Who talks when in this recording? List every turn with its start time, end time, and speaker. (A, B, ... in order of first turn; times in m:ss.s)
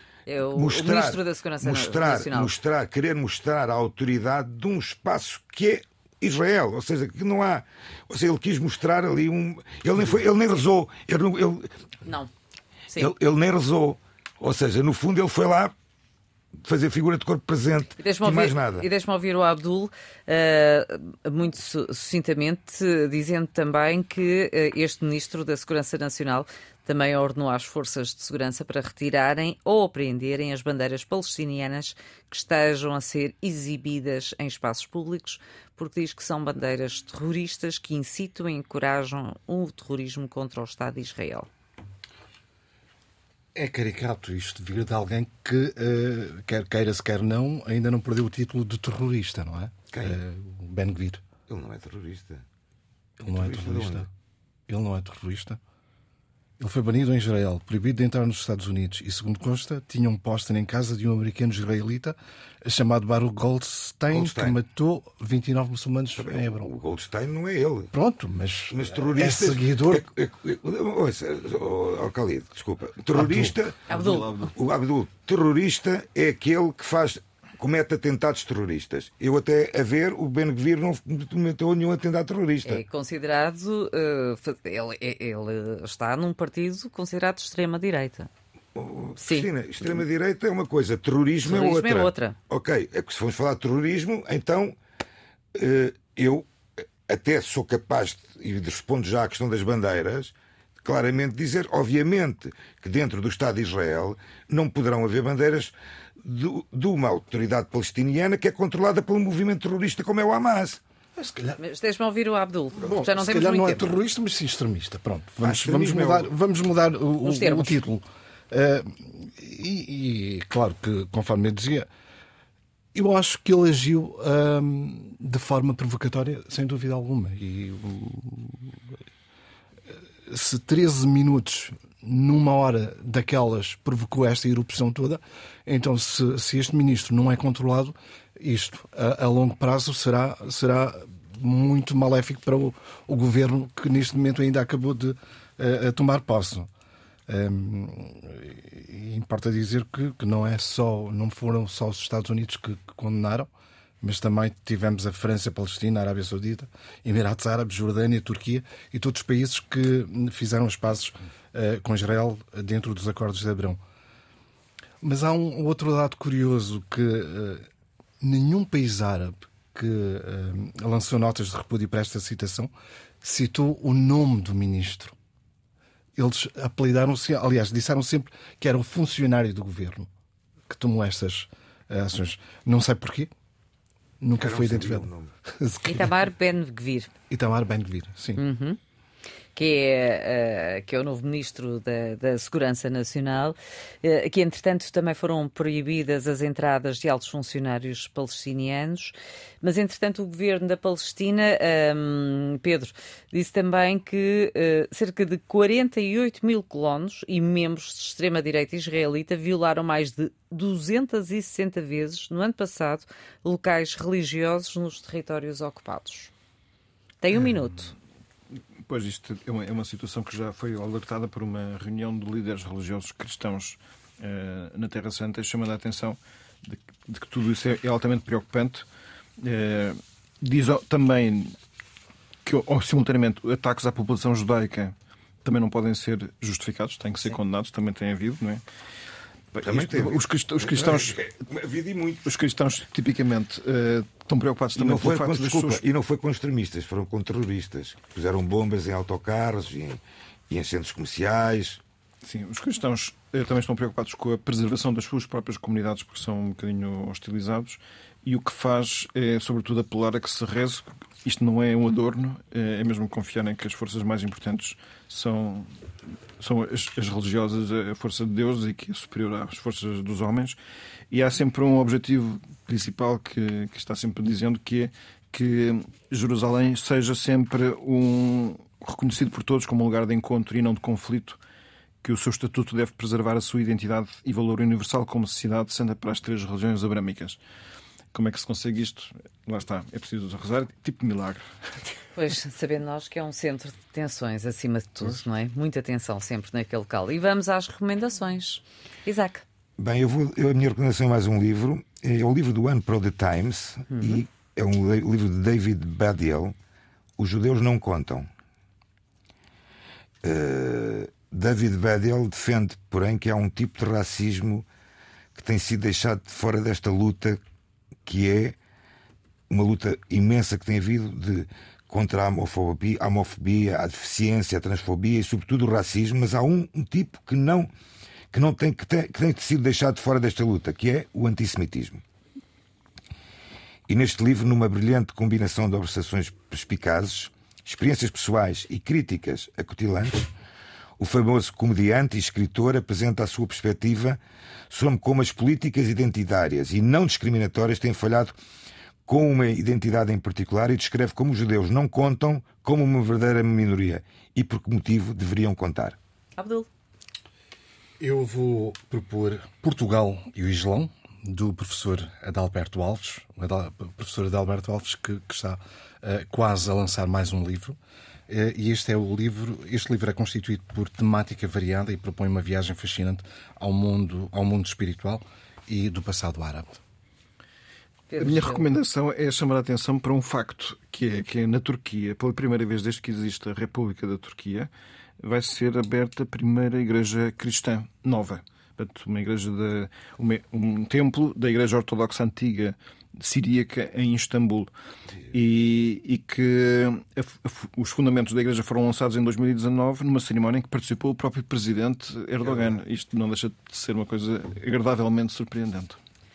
0:00.3-0:02.6 A
0:00.5-0:11.7 B
0:13.0-0:15.7 B
0:16.6-0:18.9 B
0:18.0-0:41.5 A
0:43.5-0:51.2 C
0:49.9-0:50.2 B
0:51.5-0:52.4 B
0:53.2-0:54.1 B
0:53.2-0:54.1 C
0:54.7-0:55.6 C
0:56.6-1:06.7 C
1:04.1-1:04.6 B
1:06.2-1:07.9 B
1:07.9-1:10.1 C
1:08.7-1:22.8 B
1:13.1-1:13.6 C
1:13.9-1:14.3 A
1:13.9-1:14.5 D
1:22.6-1:28.3 A
1:28.7-1:34.8 B
1:29.2-1:29.5 A
1:31.4-1:32.4 A
1:35.5-1:36.5 B
1:37.0-1:50.8 B
1:51.2-1:51.6 C
1:51.6-1:54.0 A
1:52.7-2:01.9 C
1:55.4-1:56.3 B
1:57.2-1:57.8 A
2:02.9-2:09.0 C
2:09.9-2:26.7 C
2:27.3-2:33.5 C
2:34.0-2:43.8 C
2:45.0-2:47.7 C
2:48.2-2:52.7 C
2:53.2-2:55.2 C
2:56.2-3:00.1 C
3:00.7-3:03.3 C
3:04.2-3:06.2 C
3:04.4-3:05.3 B
3:05.8-3:07.1 A
3:07.3-3:08.4 C
3:08.4-3:08.8 A
3:09.5-3:36.3 A
3:37.2-3:37.9 A
3:38.9-3:48.8 D
3:49.4-3:51.6 D
3:52.4-3:58.6 D
3:59.5-4:01.2 D
3:59.6-4:02.3 B
4:02.2-4:05.8 D
4:04.8-4:11.8 B
4:12.2-4:25.8 D
4:26.4-4:30.6 D
4:31.1-4:41.4 D
4:42.0-4:47.4 D
4:48.1-4:52.0 D
4:52.1-4:59.4 A
4:59.8-5:06.5 B
5:03.9-5:04.2 A
5:07.2-5:08.3 B
5:10.2-5:14.6 B
5:15.3-5:17.4 B
5:18.0-5:18.6 B
5:19.5-5:27.7 B
5:28.3-5:32.0 B
5:33.9-5:40.3 B
5:41.0-5:48.3 B
5:49.1-5:56.0 B
5:56.4-5:56.7 A
5:58.0-6:16.8 C
6:18.1-6:18.6 A
6:18.2-6:34.7 D
6:35.3-6:46.0 D